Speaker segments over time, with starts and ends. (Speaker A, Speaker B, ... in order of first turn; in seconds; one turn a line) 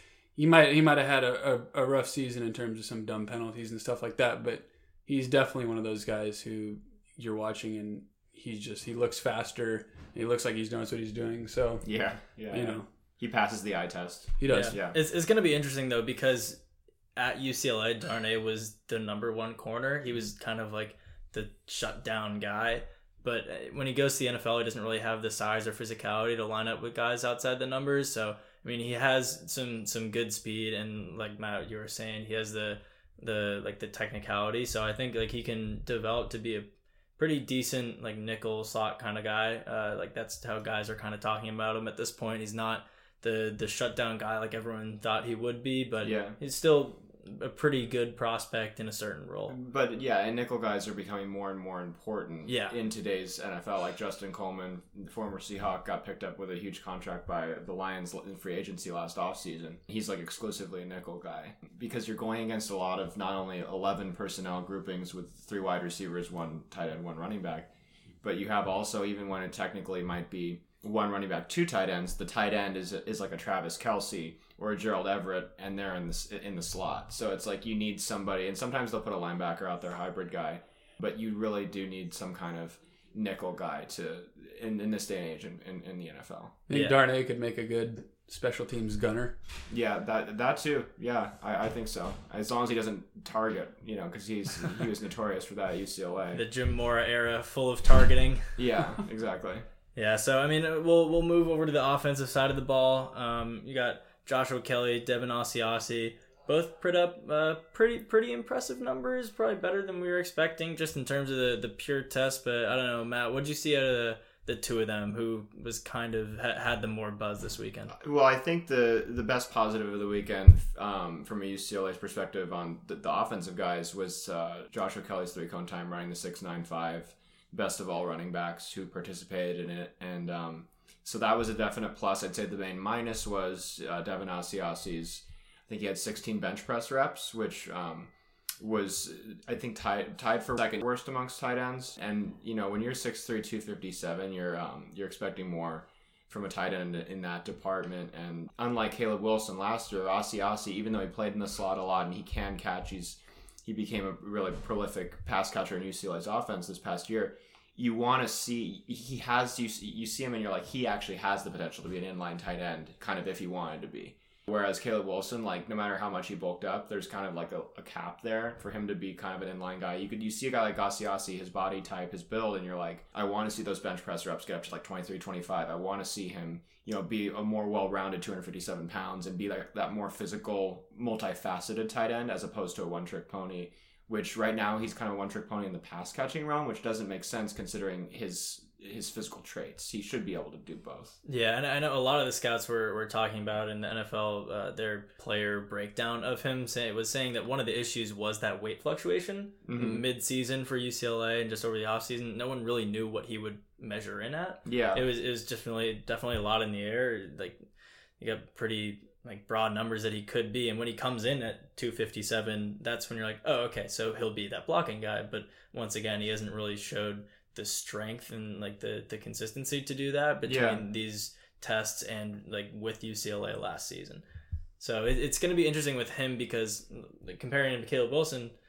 Speaker A: 0.3-11.9
Speaker B: 11.8-15.0
Speaker A: 12.5-12.9
Speaker A: 14.4-14.7
Speaker C: 14.5-16.6
Speaker C: 17.1-49.5
Speaker B: 46.0-46.4
Speaker B: 49.5-67.7
Speaker C: 52.5-52.7
Speaker B: 68.2-86.6
Speaker A: 86.7-89.3
Speaker C: 86.7-87.0
Speaker B: 89.7-96.4
Speaker C: 96.3-98.6
Speaker B: 98.6-99.7
Speaker C: 99.9-117.9
Speaker B: 118.0-191.2
Speaker C: 191.2-207.6
Speaker B: 199.6-200.0
Speaker B: 204.6-205.0
Speaker C: 208.2-224.2
Speaker B: 220.4-220.8
Speaker C: 224.8-228.5